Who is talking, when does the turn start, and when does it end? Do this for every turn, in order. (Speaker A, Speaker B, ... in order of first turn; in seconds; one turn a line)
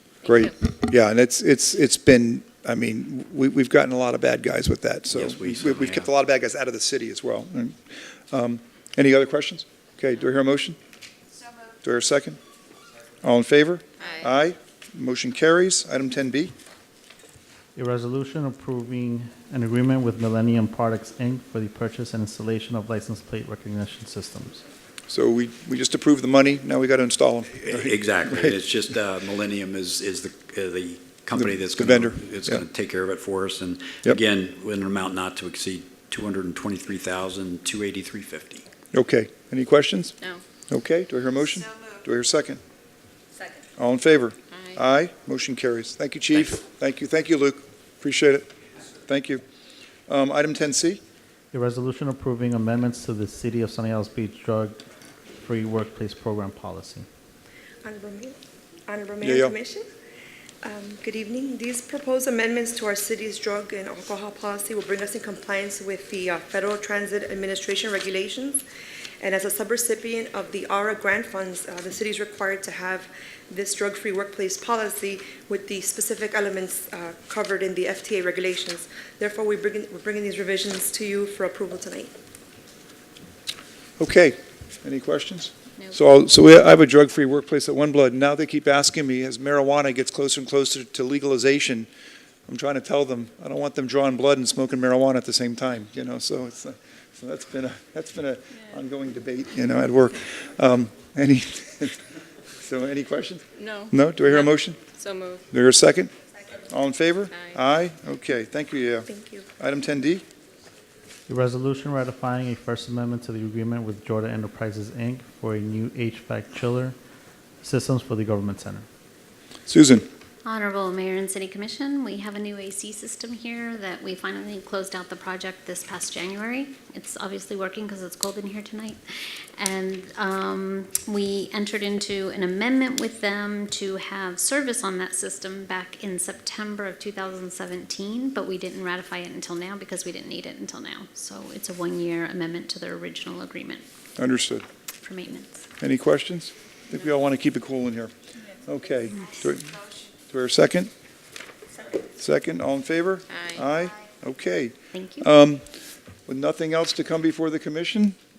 Speaker A: 0.2-10.8
Speaker B: 5.1-6.1
Speaker A: 11.8-12.4
Speaker A: 13.2-16.5
Speaker C: 14.0-14.3
Speaker D: 17.7-24.6
Speaker A: 25.1-28.6
Speaker B: 27.6-38.6
Speaker A: 31.4-32.6
Speaker A: 38.9-42.6
Speaker A: 43.8-49.4
Speaker C: 44.5-44.8
Speaker A: 50.1-51.0
Speaker D: 51.5-54.8
Speaker D: 55.4-57.0
Speaker E: 57.8-59.8
Speaker A: 59.2-59.5
Speaker E: 60.6-68.6
Speaker E: 69.2-82.1
Speaker A: 84.0-91.9
Speaker A: 92.5-102.0
Speaker A: 102.6-104.8
Speaker C: 103.6-105.4
Speaker A: 105.5-110.2
Speaker C: 107.3-107.6
Speaker E: 109.1-109.5
Speaker D: 111.3-117.0
Speaker D: 117.6-118.8
Speaker A: 119.7-120.1
Speaker F: 120.4-129.0
Speaker F: 129.6-143.8
Speaker A: 144.2-144.7
Speaker F: 145.0-145.7
Speaker A: 145.8-150.9
Speaker A: 152.1-155.7
Speaker C: 153.3-153.7
Speaker F: 154.9-155.3
Speaker A: 156.2-158.2